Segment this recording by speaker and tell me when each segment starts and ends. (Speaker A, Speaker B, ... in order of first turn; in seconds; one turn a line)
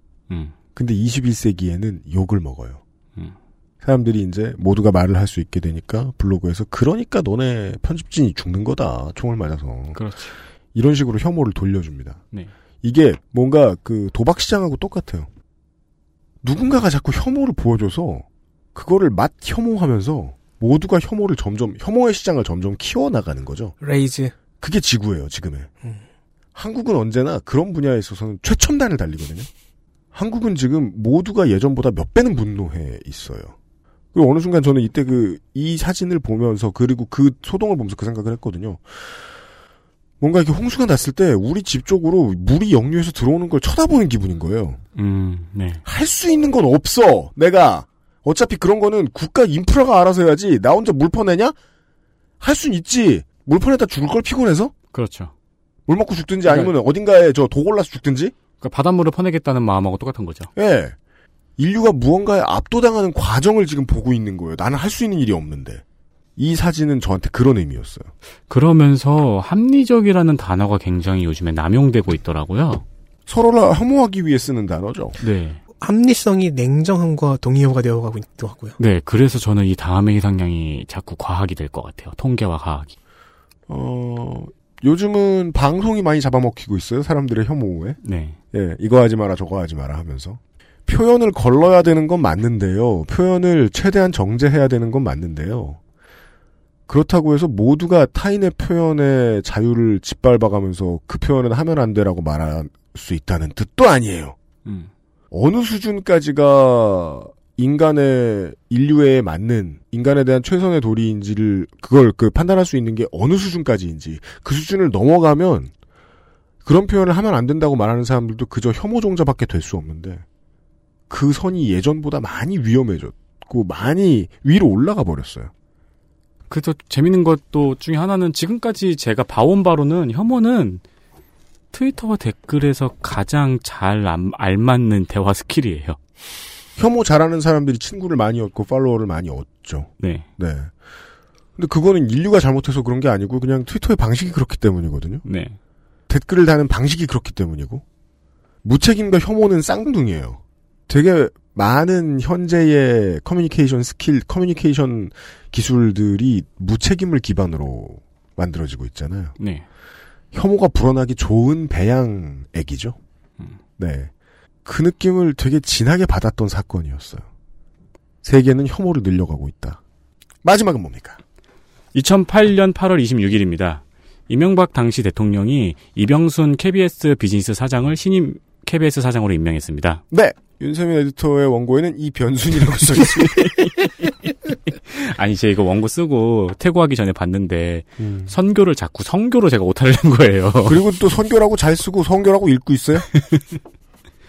Speaker A: 0.8-2.8
Speaker A: 3.8-10.0
Speaker B: 9.9-10.3
Speaker A: 10.7-12.2
Speaker A: 12.8-15.3
Speaker A: 16.4-23.7
Speaker C: 23.8-24.3
Speaker A: 24.6-25.7
Speaker A: 26.5-29.5
Speaker A: 30.1-33.5
Speaker A: 34.1-39.2
Speaker A: 40.2-44.8
Speaker B: 44.9-45.8
Speaker A: 45.9-51.5
Speaker A: 52.4-54.7
Speaker B: 54.9-55.3
Speaker A: 55.9-58.3
Speaker B: 56.5-56.7
Speaker B: 58.6-60.5
Speaker A: 60.5-61.0
Speaker A: 61.6-65.8
Speaker A: 66.4-68.1
Speaker B: 68.5-72.8
Speaker A: 73.3-75.1
Speaker B: 75.2-75.6
Speaker C: 75.8-78.8
Speaker B: 78.8-82.9
Speaker A: 83.7-88.0
Speaker B: 88.0-88.4
Speaker A: 88.5-95.8
Speaker A: 96.9-104.3
Speaker A: 105.3-115.7
Speaker A: 116.6-120.2
Speaker A: 121.1-125.5
Speaker B: 126.5-130.8
Speaker B: 131.7-136.0
Speaker A: 136.8-140.7
Speaker B: 140.0-140.3
Speaker A: 141.6-145.2
Speaker B: 145.2-145.6
Speaker A: 146.1-147.8
Speaker A: 148.6-159.3
Speaker B: 159.4-159.6
Speaker A: 160.3-163.0
Speaker A: 163.8-164.1
Speaker A: 164.6-167.2
Speaker A: 168.2-169.8
Speaker A: 170.4-171.2
Speaker B: 171.9-180.0
Speaker A: 180.1-183.6
Speaker B: 183.2-183.7
Speaker B: 184.9-190.8
Speaker A: 188.0-188.3
Speaker A: 190.7-193.1